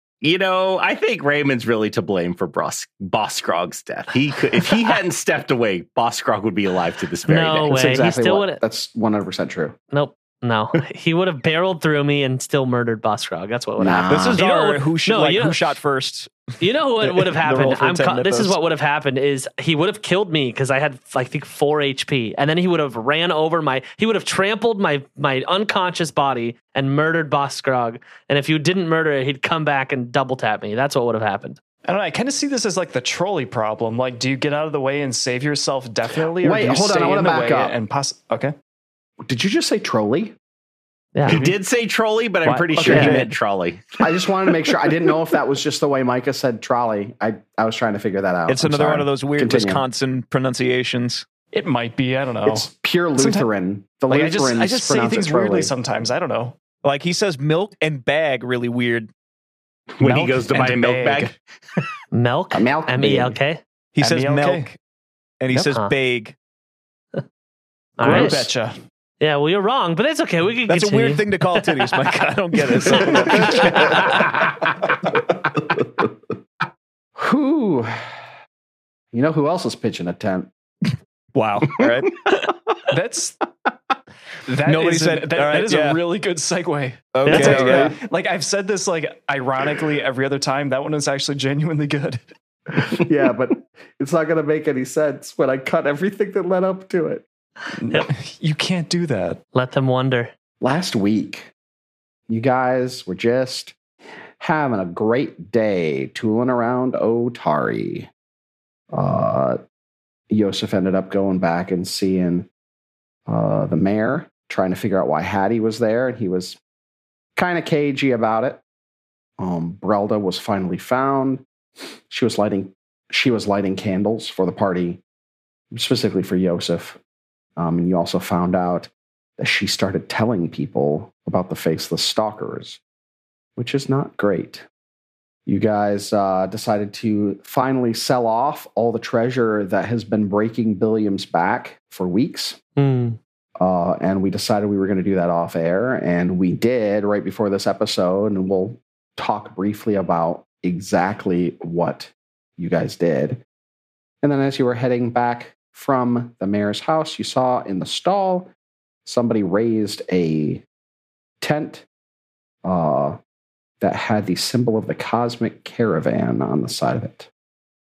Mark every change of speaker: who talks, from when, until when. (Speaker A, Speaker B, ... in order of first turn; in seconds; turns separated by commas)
Speaker A: 0.2-7.7, Speaker B: 7.3-8.6, Speaker C: 7.7-9.8, Speaker B: 9.9-15.8, Speaker C: 13.8-14.4, Speaker D: 14.1-16.3, Speaker B: 16.6-31.6, Speaker D: 17.0-18.6, Speaker E: 31.8-38.5, Speaker C: 36.4-37.8, Speaker C: 39.2-40.3, Speaker B: 41.1-41.4, Speaker A: 41.3-44.0, Speaker D: 42.4-43.3, Speaker C: 44.0-49.8, Speaker D: 48.5-51.2, Speaker E: 51.5-53.5, Speaker C: 52.4-55.7, Speaker E: 54.1-56.5, Speaker D: 56.8-59.1, Speaker A: 60.0-61.4, Speaker E: 60.0-61.3, Speaker B: 62.1-63.6, Speaker C: 62.5-63.4, Speaker D: 63.9-64.7, Speaker E: 64.0-64.8, Speaker D: 65.4-66.3, Speaker B: 68.0-68.5, Speaker E: 68.0-68.8, Speaker B: 69.2-71.8, Speaker D: 70.7-74.3, Speaker B: 72.9-74.0, Speaker C: 77.2-78.2, Speaker C: 79.1-80.5, Speaker D: 81.3-82.2, Speaker E: 82.9-83.3, Speaker E: 84.5-92.2, Speaker D: 84.6-86.0, Speaker D: 87.1-88.0, Speaker C: 87.2-88.0, Speaker C: 93.0-97.2, Speaker E: 97.8-99.4, Speaker B: 99.5-100.3, Speaker C: 100.6-101.5, Speaker C: 102.3-103.8, Speaker C: 104.4-108.1, Speaker C: 108.9-109.6, Speaker C: 110.3-112.5, Speaker C: 113.3-116.6, Speaker C: 117.3-118.6, Speaker C: 119.4-121.4, Speaker C: 122.1-125.0, Speaker C: 125.7-127.0, Speaker C: 127.6-132.8, Speaker C: 133.6-134.6, Speaker C: 135.4-142.6, Speaker B: 142.8-143.2, Speaker C: 143.6-153.4, Speaker C: 154.2-158.5, Speaker C: 159.0-160.6, Speaker C: 161.4-161.8, Speaker C: 162.6-163.2, Speaker C: 163.8-167.3